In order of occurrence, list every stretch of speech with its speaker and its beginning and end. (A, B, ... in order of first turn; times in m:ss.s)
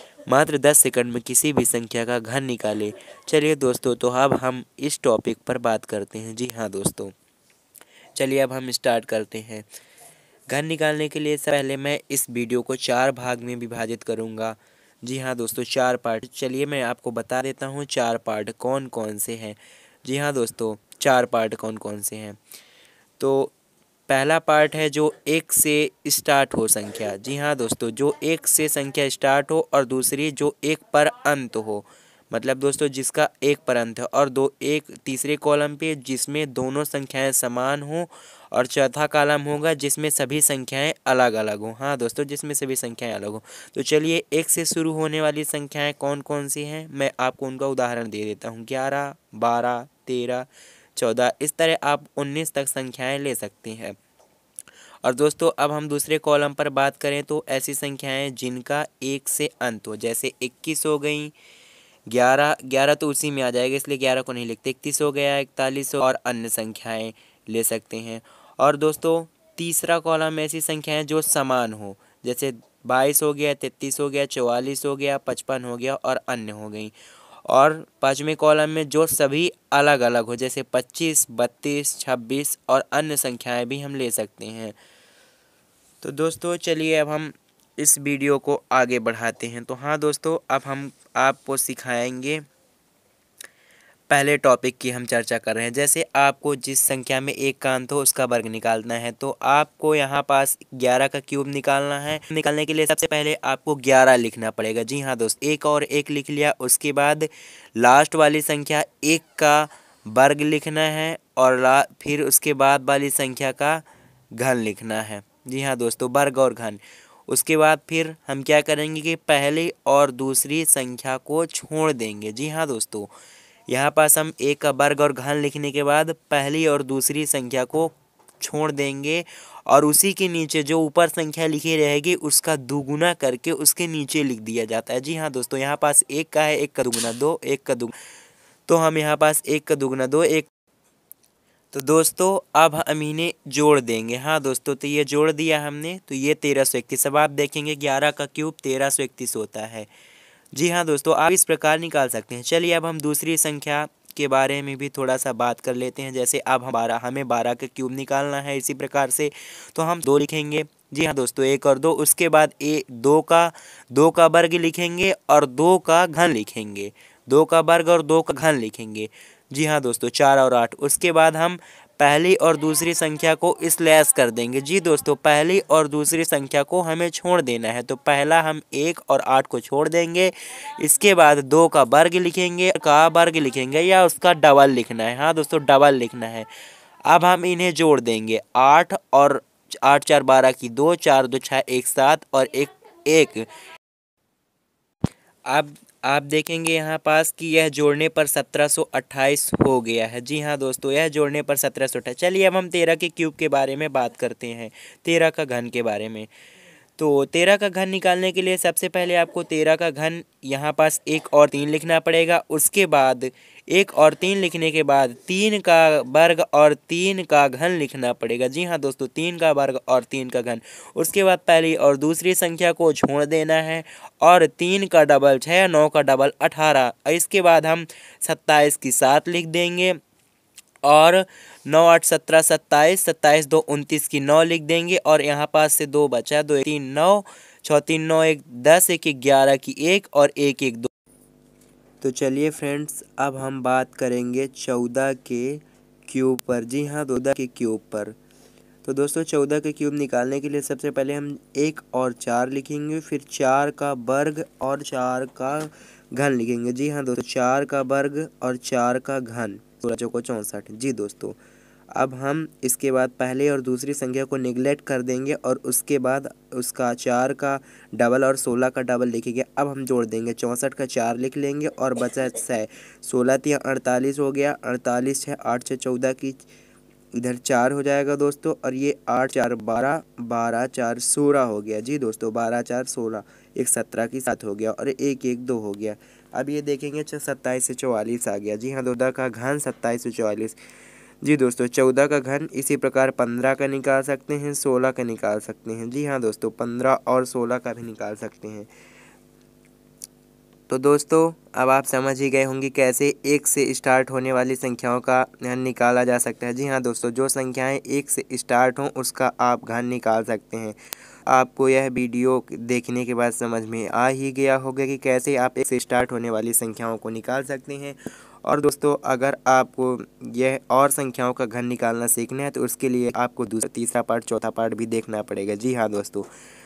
0:00.3-0:07.1 A
0:08.2-0:09.7 A
0:10.5-0:22.4 A
0:23.2-0:23.5 A
0:24.1-0:54.0 A
0:55.0-1:01.3 A
1:02.1-1:16.9 A
1:17.5-1:24.8 A
1:26.0-1:32.4 A
1:34.1-1:53.8 A
1:54.4-2:03.1 A
2:03.7-2:18.0 A
2:18.7-2:20.5 A
2:21.7-2:29.9 A
2:30.5-3:06.5 A
3:07.1-3:13.5 A
3:15.5-3:26.3 A
3:27.0-3:50.0 A
3:50.8-4:00.9 A
4:02.0-4:08.2 A
4:08.8-4:21.4 A
4:22.0-4:36.5 A
4:37.1-4:50.6 A
4:51.2-4:58.7 A
5:00.7-5:26.3 A